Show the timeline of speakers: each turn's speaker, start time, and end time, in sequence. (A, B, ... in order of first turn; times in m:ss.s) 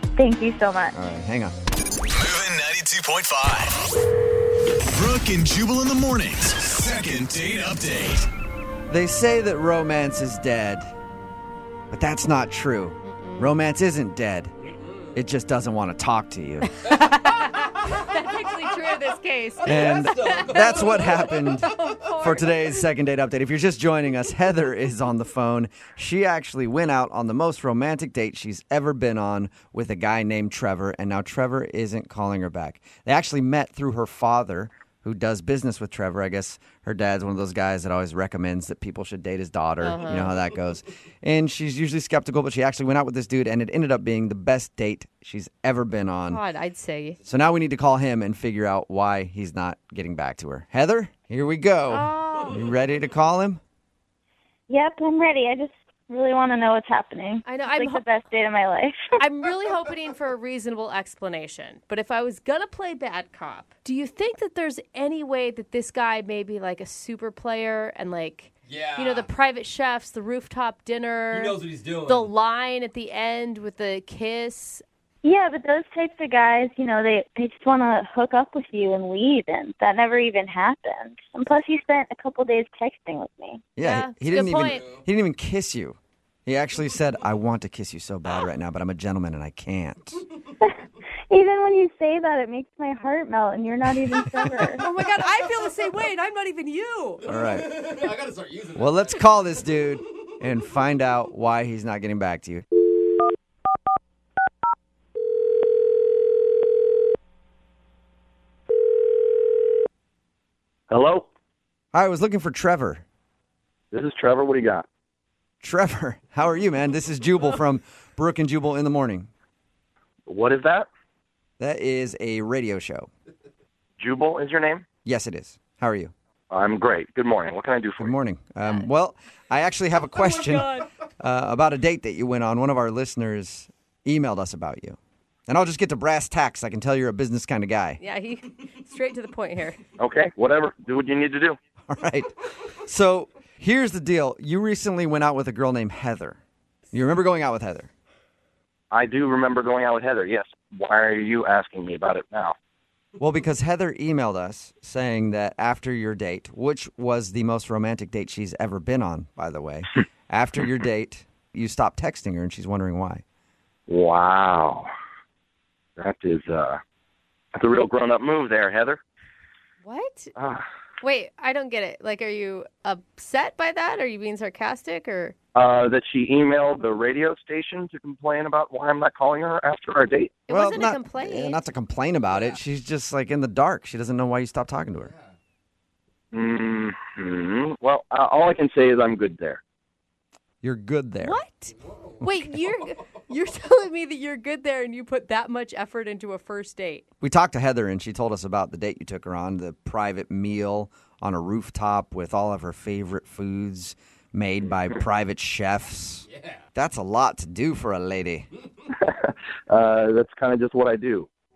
0:00.2-0:01.0 A
0:00.9-0:01.5 B
0:02.1-0:03.8 C
0:04.9-0:08.3 C
0:08.9-0:10.9 B
0:11.9-0:14.5 B
0:13.0-0:13.5 D
0:14.6-0:15.2 E
0:15.1-0:16.8 B
0:16.8-0:22.8 D
0:19.6-0:21.9 E
0:19.6-0:46.4 B
0:39.8-0:40.3 D
0:46.3-0:47.2 D
0:47.2-0:53.6 B
0:51.9-0:52.6 D
0:54.7-0:59.2 A
0:57.4-0:58.0 D
0:59.2-1:14.8 D
1:08.6-1:09.3 E
1:11.3-1:12.3 E
1:15.2-1:23.6 A
1:23.8-1:30.2 B
1:23.8-1:24.9 D
1:24.5-1:25.0 E
1:31.3-1:34.8 A
1:34.8-1:37.2 D
1:37.3-1:37.7 B
1:37.3-1:40.4 E
1:38.8-1:42.6 B
1:50.9-1:51.3 F
1:51.9-1:53.0 B
1:53.9-1:54.8 F
1:55.6-1:59.3 B
2:00.3-2:00.9 F
2:01.6-2:03.1 B
2:04.0-2:04.8 F
2:05.0-2:06.1 B
2:06.5-2:08.1 F
2:08.0-2:10.7 B
2:08.6-2:08.9 D
2:10.1-2:10.9 D
2:11.2-2:18.0 B
2:18.0-2:19.8 D
2:20.0-2:21.6 F
2:21.9-2:26.4 B
2:26.9-2:27.9 B
2:28.9-2:32.6 F
2:33.2-2:43.2 B
2:43.9-2:44.9 F
2:46.0-2:46.8 F
2:47.5-2:49.0 F
2:49.8-2:50.3 D
2:50.4-2:50.6 F
2:51.0-2:55.3 D
2:55.5-3:00.4 F
3:00.4-3:01.6 D
3:00.5-3:05.1 B
3:02.3-3:02.6 E
3:04.9-3:05.3 E
3:06.3-3:09.6 F
3:10.6-3:11.4 B
3:11.2-3:17.0 D
3:11.7-3:12.3 E
3:12.2-3:12.5 B
3:17.2-3:28.5 B
3:26.2-3:26.7 E
3:28.9-3:31.3 F